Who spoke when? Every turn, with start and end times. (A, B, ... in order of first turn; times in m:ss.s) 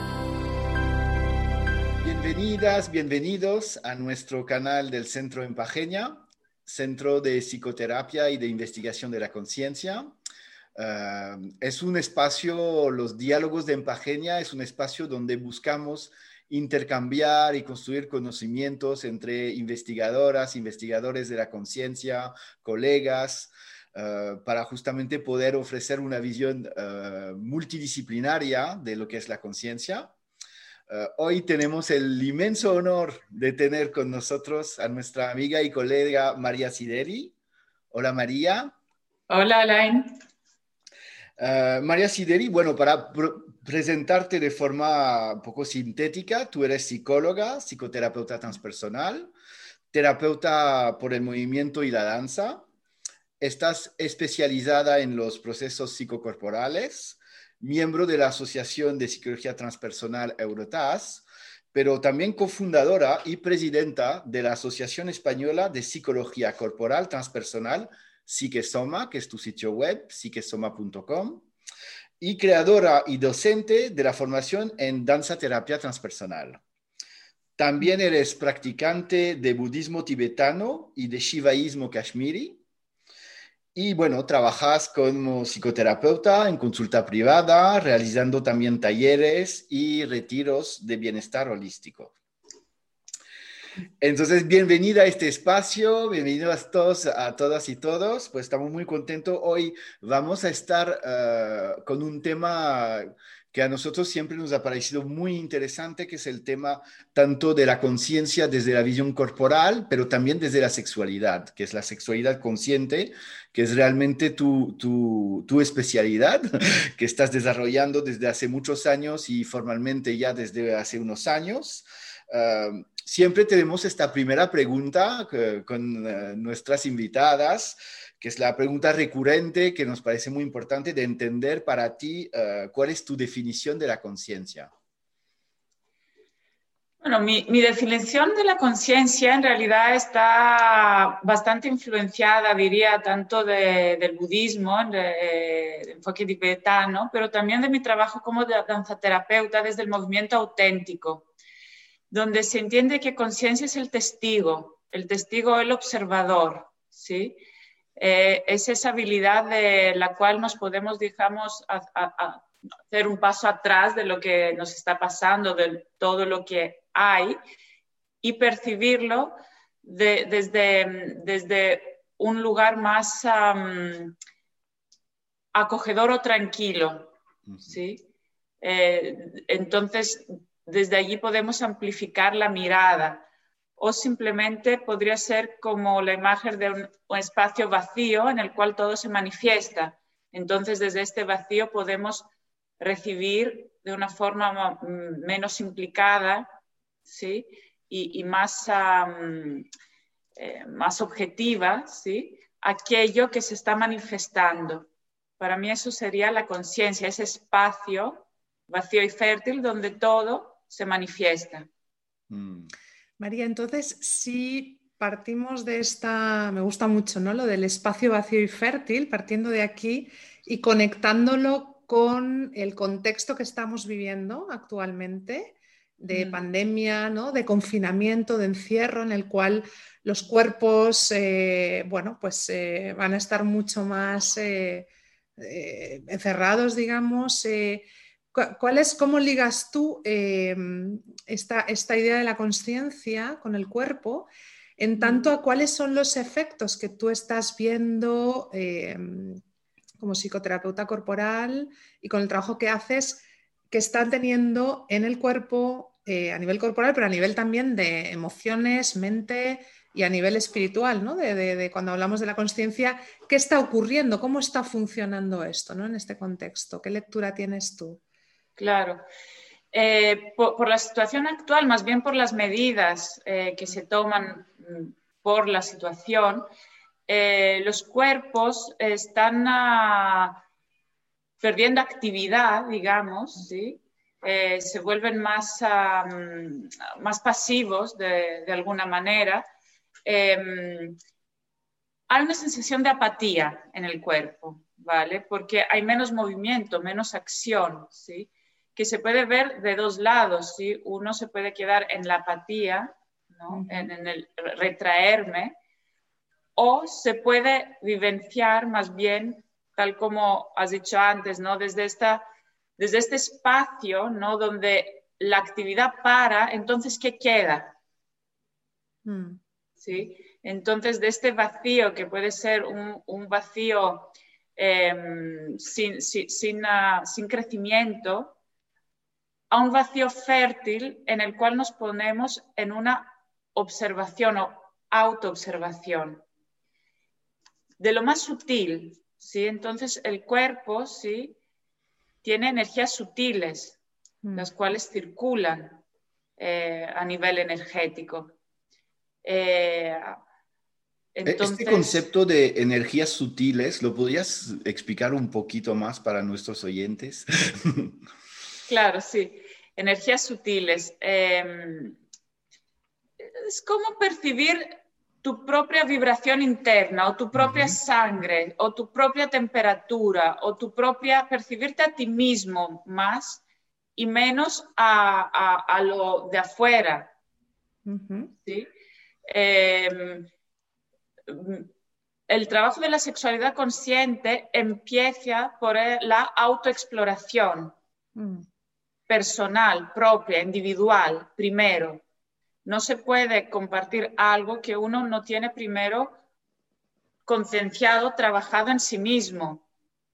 0:02.0-0:10.1 A
0:10.7-0:30.1 A
0:30.9-0:37.3 A
0:37.9-0:38.7 A
0:39.3-0:40.2 B
0:41.4-0:49.3 A
0:49.9-0:52.6 A
0:53.4-1:11.4 A
1:12.2-1:16.6 A
1:17.6-1:22.6 A
1:23.7-1:32.1 A
1:34.0-2:14.7 A
2:17.0-2:31.3 B
2:32.1-2:37.4 B
2:38.0-2:47.4 B
2:48.2-2:54.1 B
2:55.5-2:57.1 B
2:57.5-2:57.8 A
2:57.6-2:58.0 B
2:58.6-3:03.2 B
3:03.8-3:12.3 B
3:12.8-3:16.5 B
3:17.0-3:19.7 B
3:20.4-3:24.9 B
3:25.4-3:31.7 B
3:32.3-3:32.7 A
3:33.2-4:09.4 C
3:46.1-3:46.4 B
4:10.0-4:28.0 C
4:28.6-4:29.0 B
4:29.7-4:36.5 B
4:37.1-4:40.4 B
4:41.4-4:49.4 B
4:50.0-4:51.0 B
4:52.1-5:05.6 B
5:03.5-5:03.9 C
5:06.6-5:12.2 B
5:12.8-5:17.7 B
5:19.0-5:19.4 C
5:19.8-5:28.4 B
5:29.5-5:36.2 B
5:37.8-5:41.4 B
5:42.2-5:43.8 B
5:44.2-5:44.5 C
5:44.3-5:45.8 B
5:46.4-5:48.3 B
5:49.2-5:50.2 B
5:51.1-5:52.0 B
5:51.2-5:57.9 A
5:58.7-6:02.0 B
6:03.2-6:04.7 B
6:05.2-6:13.4 B
6:07.4-6:07.7 A
6:14.0-6:17.1 B
6:17.8-6:18.3 C
6:19.2-6:20.3 B
6:21.3-6:21.7 B
6:22.3-6:27.7 B
6:28.2-6:28.4 C
6:29.1-6:32.0 B
6:32.6-6:36.2 B
6:37.2-6:39.6 B